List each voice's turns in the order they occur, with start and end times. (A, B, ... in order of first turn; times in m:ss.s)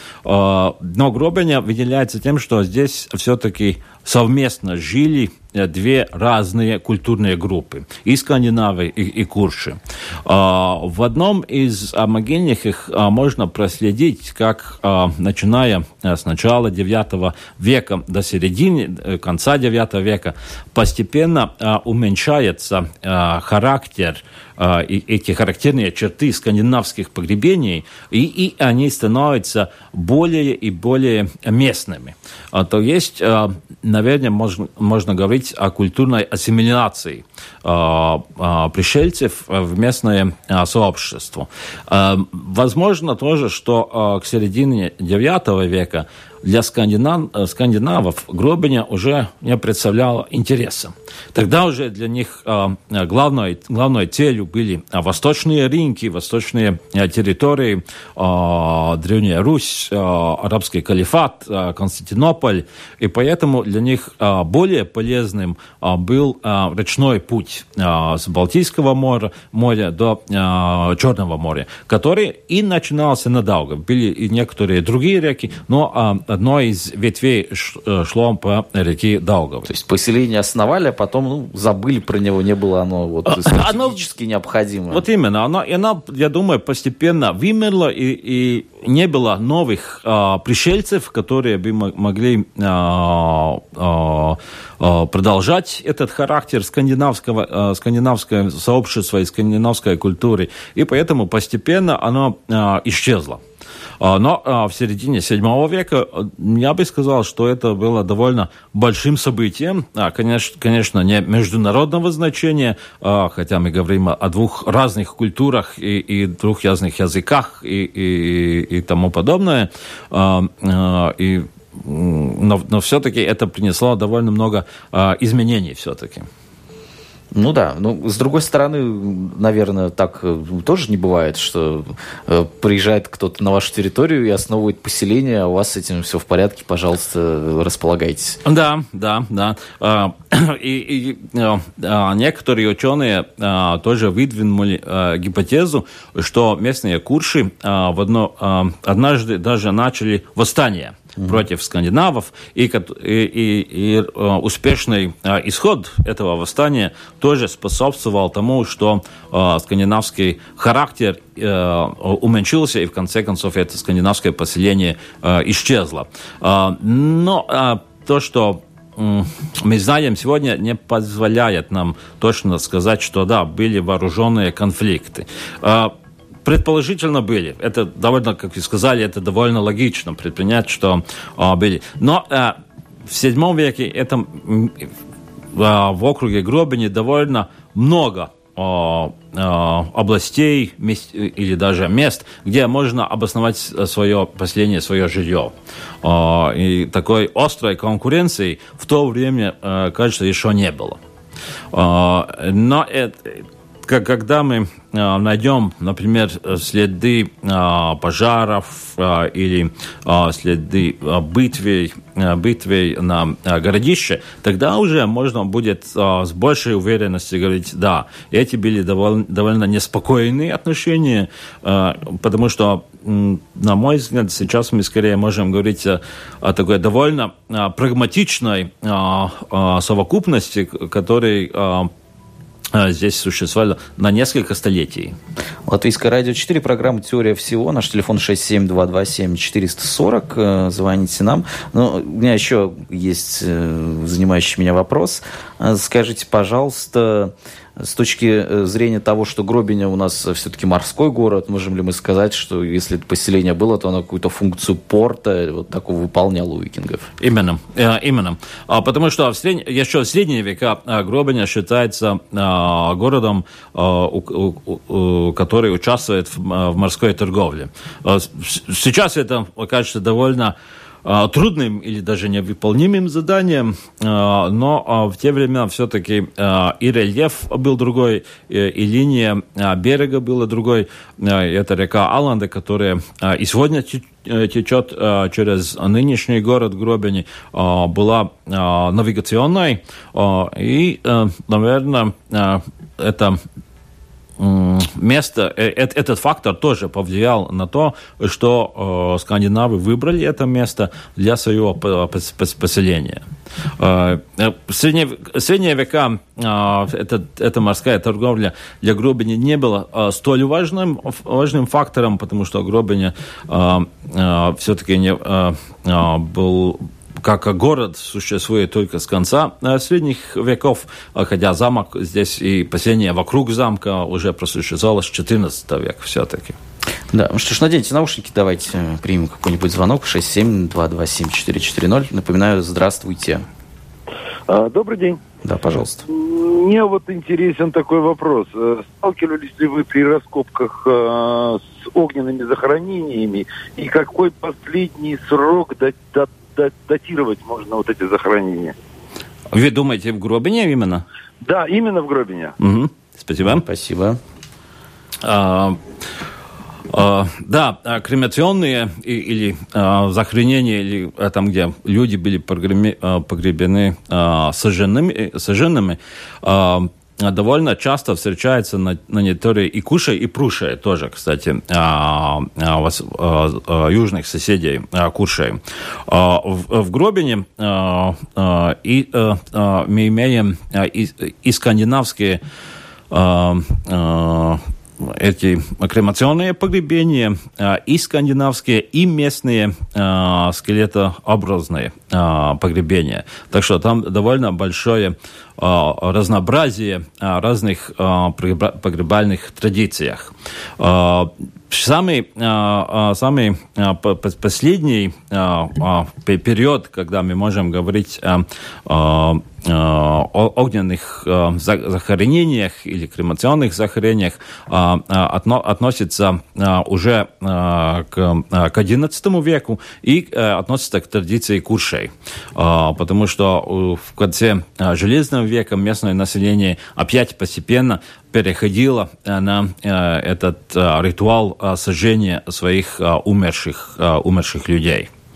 0:00.2-1:19.7 A
1:19.7-1:25.0 B
1:23.3-1:24.0 A
1:24.9-1:43.4 A
1:44.0-2:06.3 A
2:07.3-2:18.4 B
2:18.4-2:55.9 A
2:56.4-3:04.9 A
3:05.5-3:21.0 A
3:21.7-3:51.9 A
3:52.7-3:55.2 A
3:55.7-4:17.1 B
4:17.2-4:53.4 A
4:54.4-5:03.2 A
5:03.8-5:26.6 A
5:27.1-5:33.4 B
5:34.5-5:35.2 C
5:35.4-5:36.0 B
5:36.1-5:48.8 C
5:49.5-5:51.0 A
5:51.4-5:52.6 C
5:52.6-5:53.6 A
5:53.4-5:54.2 B
5:55.2-5:55.8 A
5:56.9-6:22.4 A
6:23.1-7:15.1 A